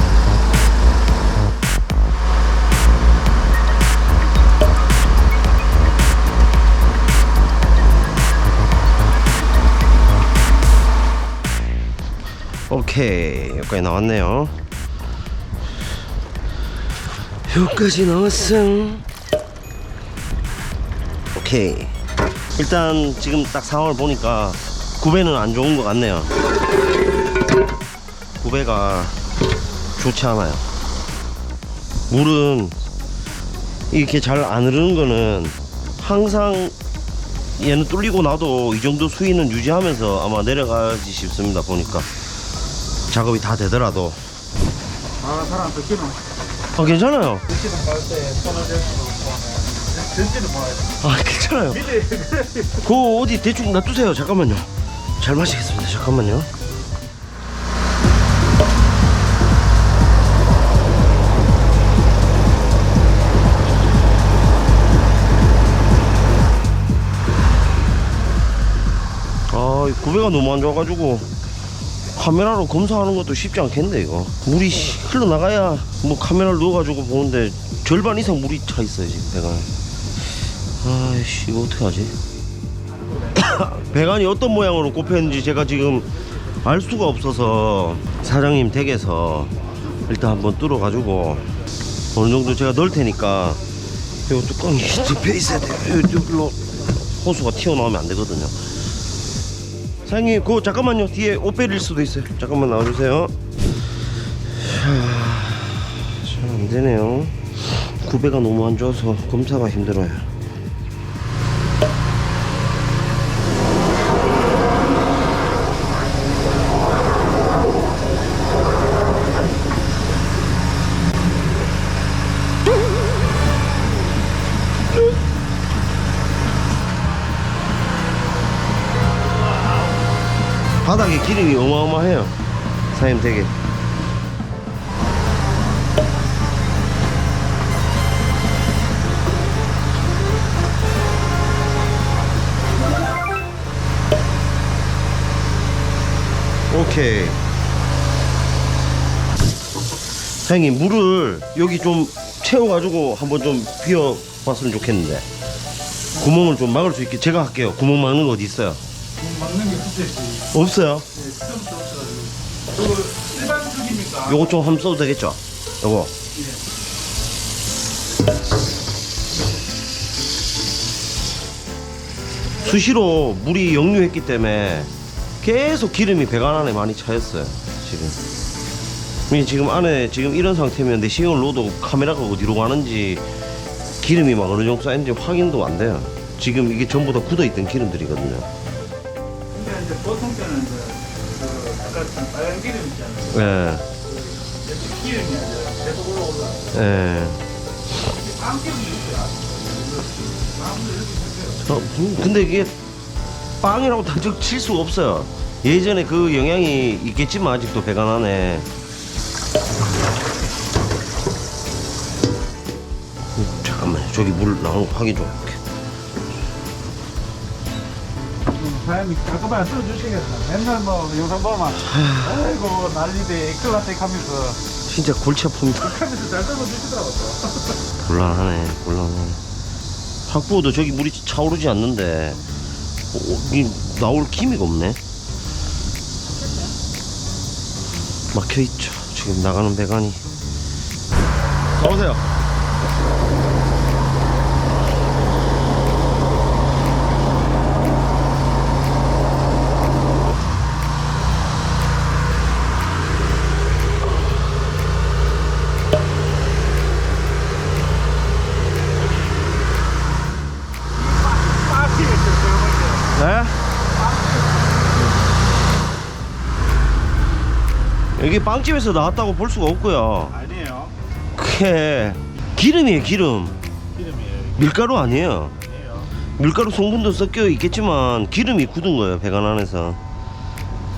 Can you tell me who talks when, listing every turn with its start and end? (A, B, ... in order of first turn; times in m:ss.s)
0:12.7-0:14.6 A
0:17.5-0:19.0 A
0:21.4-0:22.0 A
0:22.6-0:26.3 A
0:28.4-0:29.2 A
0:30.0-0:30.6 A
0:32.1-0:32.8 A
0:33.9-0:36.8 A
0:37.6-0:42.1 A
0:43.1-0:44.2 A
0:45.2-0:46.2 B
0:46.8-0:47.4 A
0:47.5-0:51.1 B
0:51.0-0:51.8 A
0:51.7-0:52.9 B
0:52.8-0:56.5 A
1:09.5-1:11.3 A
1:12.2-1:19.7 A
1:20.8-1:22.1 A
1:23.3-1:29.5 A
1:30.1-1:31.5 A
1:32.1-1:33.6 A
1:34.3-1:38.6 A
1:40.1-1:43.3 A
1:44.5-1:50.3 A
2:10.8-2:12.4 A
2:12.9-2:13.5 A
2:26.7-2:27.4 A
2:30.4-2:35.3 A
2:36.2-2:38.8 A
2:39.2-2:40.5 B
2:40.5-2:41.1 A
2:41.2-2:44.6 B
2:44.3-2:46.1 A
2:52.6-2:54.9 A
2:55.4-2:58.2 A
2:59.3-3:03.2 A
3:04.0-3:08.5 A
3:09.5-3:13.5 C
3:13.3-3:13.9 A
3:14.1-3:16.6 C
3:16.7-3:17.4 A
3:18.0-3:21.7 B
3:21.6-3:22.7 A
3:23.6-3:28.7 A
3:33.4-3:35.6 A
3:38.5-3:44.6 B
3:41.9-3:42.4 A
3:44.9-3:46.0 A
3:45.8-3:47.8 B
3:48.0-3:49.4 A
3:50.3-3:52.4 A
3:53.1-3:55.0 A
3:58.3-4:00.2 A
4:01.8-4:02.3 A
4:20.9-4:23.2 B
4:23.1-4:23.6 A
4:23.8-4:25.1 B
4:28.2-4:30.3 A
4:30.3-4:30.9 B
4:31.4-4:33.6 A
4:33.9-4:36.1 B
4:34.6-4:35.5 A
4:36.4-4:40.0 A